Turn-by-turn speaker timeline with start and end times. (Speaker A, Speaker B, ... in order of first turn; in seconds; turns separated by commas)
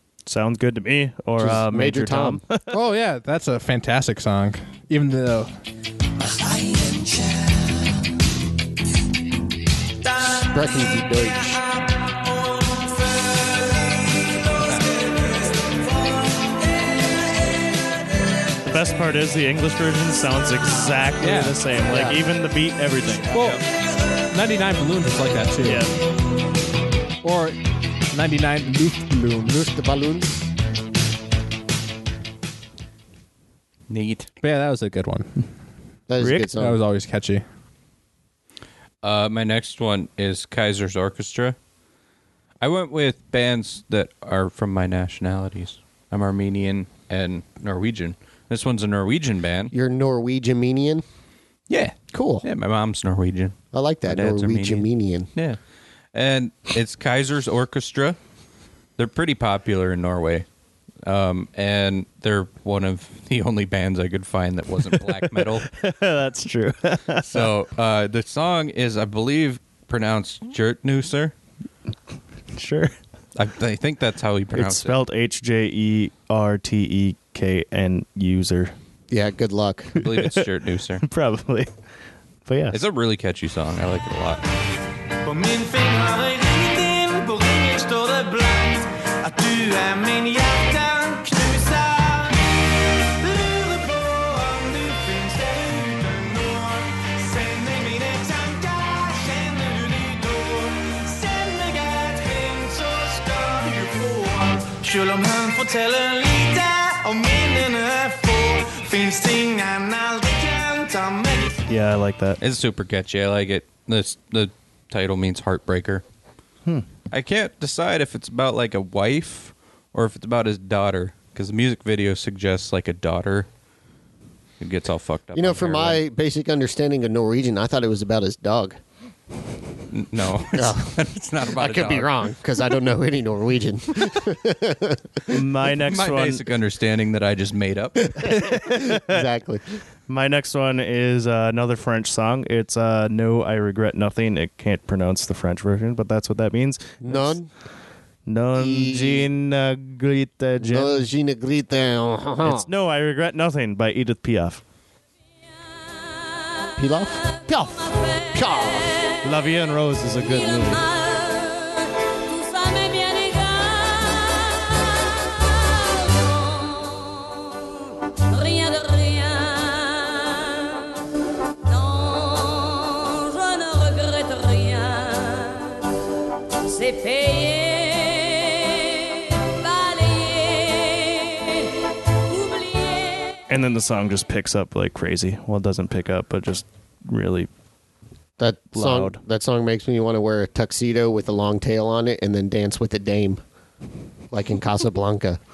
Speaker A: 0.2-2.6, Speaker B: 1.4-2.4, Speaker C: 2.7-5.5, Speaker B: 10.2-11.6, Speaker D: 14.8-15.4, Speaker A: 18.6-23.6, Speaker C: 21.2-21.6, Speaker B: 21.9-22.2, Speaker C: 23.3-23.6, Speaker C: 24.3-25.8, Speaker A: 25.6-25.9, Speaker C: 27.2-27.6, Speaker C: 28.1-29.6, Speaker B: 29.4-30.5, Speaker E: 33.9-34.3, Speaker C: 34.4-35.3, Speaker B: 36.1-36.8, Speaker C: 36.5-37.4, Speaker E: 39.0-41.5, Speaker E: 42.6-49.7, Speaker B: 49.7-51.0, Speaker E: 51.7-53.5, Speaker B: 52.1-52.4, Speaker B: 53.7-55.3, Speaker E: 54.1-55.6, Speaker E: 56.1-58.2, Speaker E: 59.0-60.5, Speaker E: 61.0-65.7, Speaker A: 65.4-67.5, Speaker E: 67.2-71.3, Speaker A: 72.5-72.9, Speaker E: 73.3-75.0, Speaker A: 74.5-78.7, Speaker B: 79.1-80.0, Speaker E: 80.0-81.0, Speaker A: 80.0-80.4, Speaker A: 81.0-81.7, Speaker A: 82.5-82.8, Speaker E: 82.7-84.4, Speaker D: 85.2-111.6, Speaker A: 111.7-112.4, Speaker E: 112.4-116.0, Speaker E: 117.1-123.5, Speaker E: 124.6-126.0, Speaker B: 125.3-128.8, Speaker E: 129.9-132.1, Speaker B: 130.5-135.0, Speaker A: 135.3-136.4, Speaker E: 135.8-138.3, Speaker A: 138.3-139.2, Speaker B: 138.6-139.6, Speaker A: 140.1-147.3, Speaker B: 147.0-147.5, Speaker A: 148.2-151.0, Speaker B: 148.5-149.3, Speaker B: 150.6-152.7, Speaker A: 152.4-154.6, Speaker B: 156.8-159.0, Speaker A: 159.2-160.9, Speaker F: 160.4-171.0, Speaker F: 171.6-175.8, Speaker F: 176.6-181.7, Speaker F: 182.3-183.4, Speaker A: 183.5-187.5, Speaker B: 188.4-193.4, Speaker A: 188.7-189.2, Speaker B: 194.3-195.4